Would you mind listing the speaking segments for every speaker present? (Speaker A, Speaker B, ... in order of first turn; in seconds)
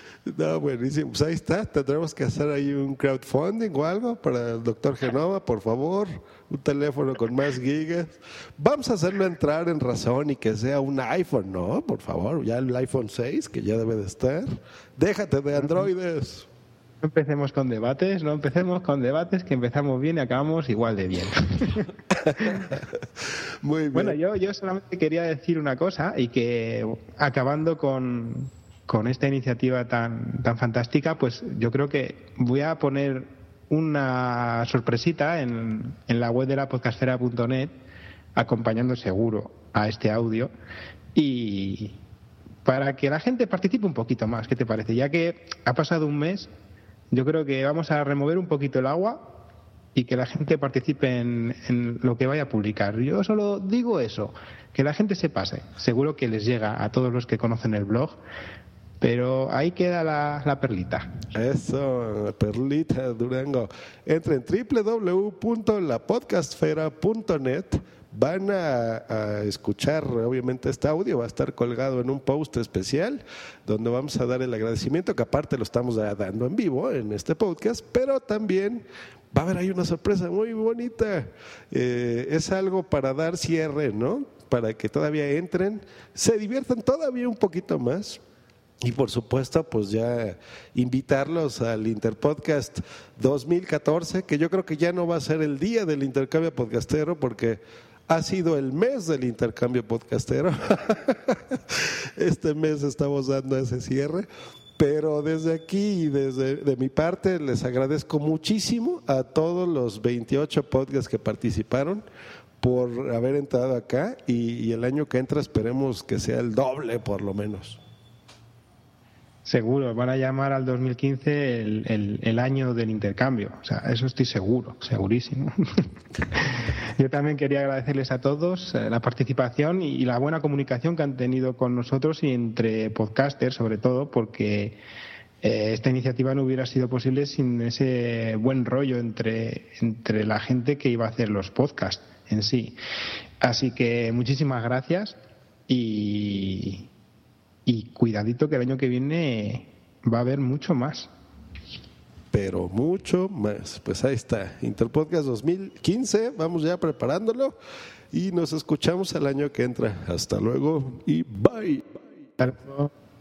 Speaker A: 0.3-16.5, 23.6-24.2, 61.3-88.2, 88.8-104.3, 104.8-112.0, 112.6-117.8, 152.3-157.6, 158.1-162.0
Speaker B: 15.5-15.9, 17.0-21.8, 23.9-37.8, 38.4-40.5, 41.1-42.0, 42.6-46.5, 47.1-49.3, 49.9-58.2, 59.0-61.1, 119.5-125.5, 127.0-134.8, 135.4-142.8, 143.4-145.2, 145.7-146.9, 147.7-151.1, 162.4-162.9